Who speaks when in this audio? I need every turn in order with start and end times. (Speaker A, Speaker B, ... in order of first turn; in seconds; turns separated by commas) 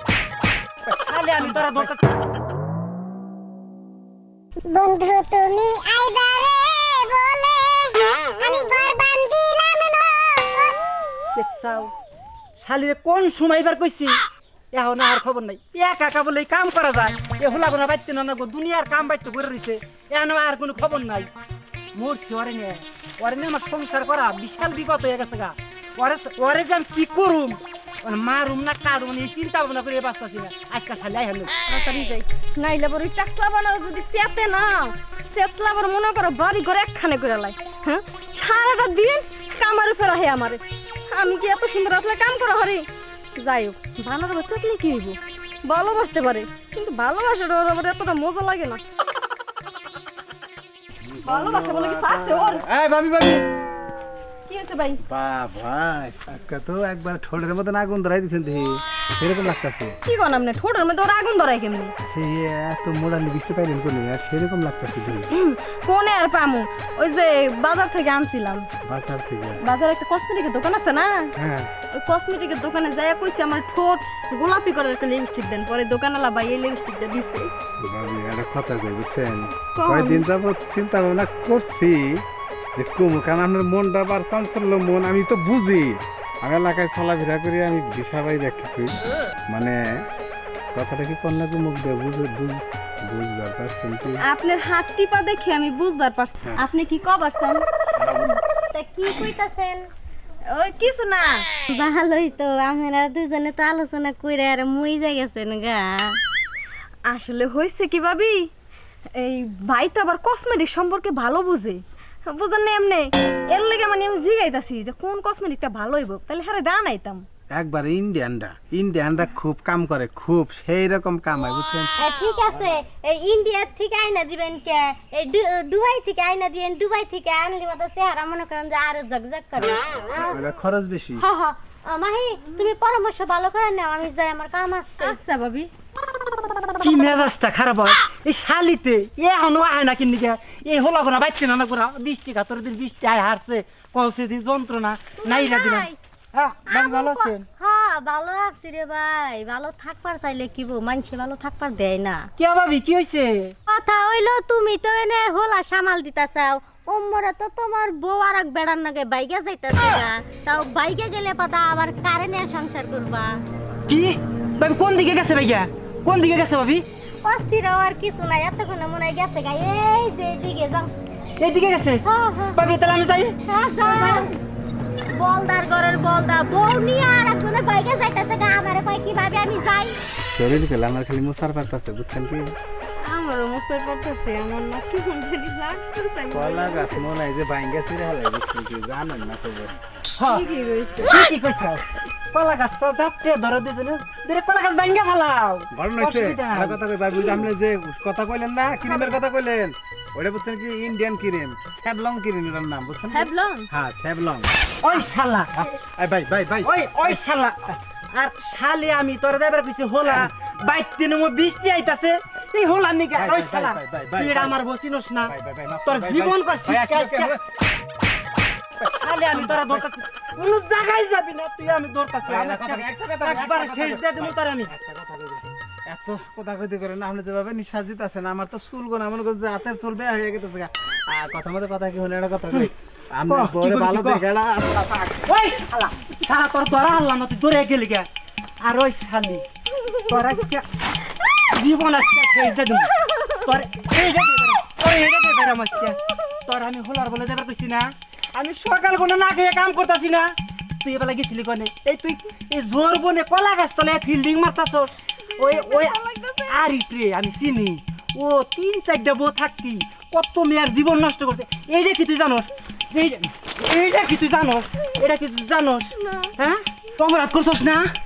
Speaker A: 0.9-1.9, Speaker B: 1.1-2.2, Speaker C: 4.6-10.7, Speaker B: 11.3-11.9, Speaker B: 12.6-21.3, Speaker B: 21.9-31.5, Speaker D: 31.7-42.8, Speaker D: 43.4-48.8, Speaker A: 51.1-53.4, Speaker D: 51.2-52.6, Speaker D: 54.5-55.0, Speaker A: 55.1-59.9, Speaker D: 60.0-61.9, Speaker A: 62.0-65.3, Speaker D: 65.3-68.7, Speaker A: 68.8-69.6, Speaker D: 69.6-71.3, Speaker A: 71.4-71.7, Speaker D: 72.0-77.5, Speaker A: 77.8-82.2, Speaker D: 79.6-80.2, Speaker A: 82.7-88.9, Speaker A: 89.5-89.8, Speaker A: 90.7-94.2, Speaker D: 94.2-97.6, Speaker A: 98.0-98.4, Speaker C: 98.7-99.9, Speaker D: 100.5-101.5, Speaker C: 101.6-106.2, Speaker D: 107.1-108.5, Speaker D: 109.1-117.2, Speaker A: 117.5-122.0, Speaker C: 122.0-130.4, Speaker A: 129.6-131.2, Speaker C: 131.2-135.2, Speaker D: 135.0-135.7, Speaker B: 136.8-147.4, Speaker C: 145.2-146.0, Speaker C: 146.7-152.3, Speaker B: 152.4-153.5, Speaker C: 153.7-163.4, Speaker B: 163.9-166.8, Speaker C: 167.2-170.9, Speaker B: 171.4-174.3, Speaker C: 172.0-172.6, Speaker C: 173.5-174.3, Speaker C: 175.1-180.0, Speaker A: 180.3-182.5, Speaker D: 183.0-187.1, Speaker A: 186.3-189.8, Speaker B: 190.2-190.5, Speaker D: 190.2-191.2, Speaker B: 191.0-196.8, Speaker A: 195.7-204.5, Speaker D: 203.1-203.7, Speaker B: 204.8-205.7, Speaker A: 205.7-207.2, Speaker B: 206.6-215.3, Speaker A: 213.1-214.6, Speaker A: 215.2-217.4, Speaker B: 215.8-217.3, Speaker A: 218.8-219.8, Speaker B: 219.0-224.7, Speaker A: 222.2-235.3, Speaker B: 233.3-234.2, Speaker B: 235.3-238.1, Speaker B: 238.6-239.4, Speaker B: 240.0-240.6, Speaker B: 241.3-267.9, Speaker D: 243.0-243.4, Speaker D: 255.3-256.6, Speaker D: 266.0-266.3